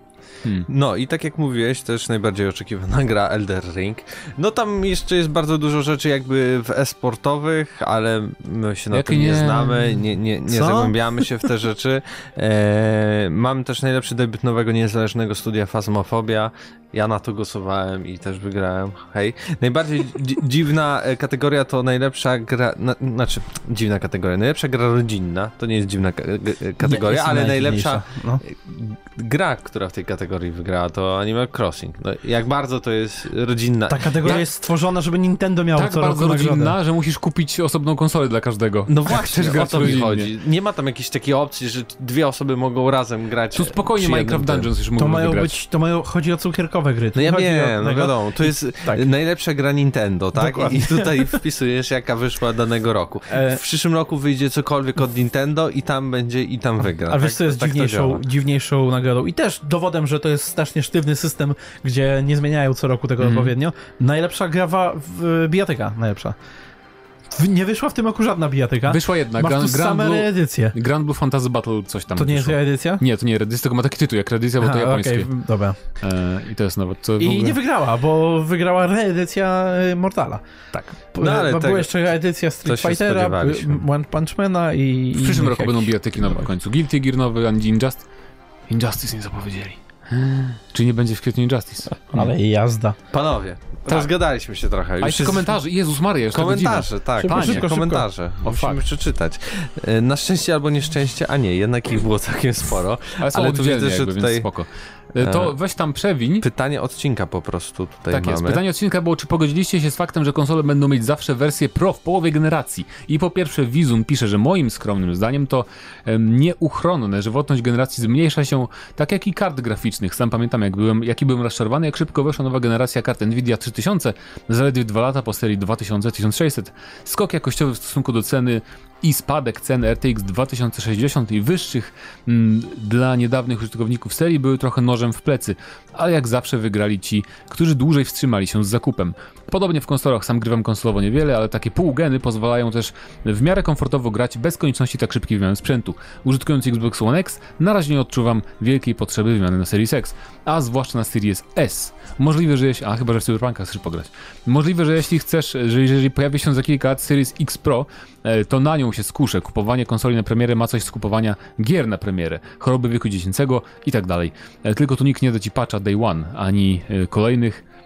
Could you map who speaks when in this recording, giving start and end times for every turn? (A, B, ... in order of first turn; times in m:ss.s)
0:00.7-0:34.4 A
0:08.9-0:10.0 B
0:10.5-0:11.0 C
0:26.8-0:28.4 C
0:33.9-0:36.8 C
0:35.8-0:40.3 B
0:38.9-0:44.7 A
0:43.5-0:45.6 B
0:45.0-0:49.0 C
0:47.2-0:58.2 A
0:50.4-0:51.4 C
0:53.3-0:53.6 C
0:57.1-1:06.4 C
1:03.2-1:03.5 B
1:07.3-1:10.8 C
1:08.9-1:15.3 B
1:12.2-1:13.0 C
1:14.6-1:15.8 C
1:16.0-1:17.6 B
1:17.2-1:20.4 C
1:21.1-1:26.4 C
1:21.2-1:21.9 A
1:22.6-1:23.8 A
1:25.2-1:28.1 B
1:28.7-1:32.3 B
1:31.9-1:33.0 C
1:33.1-1:35.5 A
1:35.0-1:37.7 B
1:36.3-1:44.5 A
1:37.2-1:38.1 C
1:38.4-1:38.8 B
1:43.2-1:46.5 B
1:45.2-1:45.6 A
1:46.4-1:48.6 A
1:48.1-2:47.6 B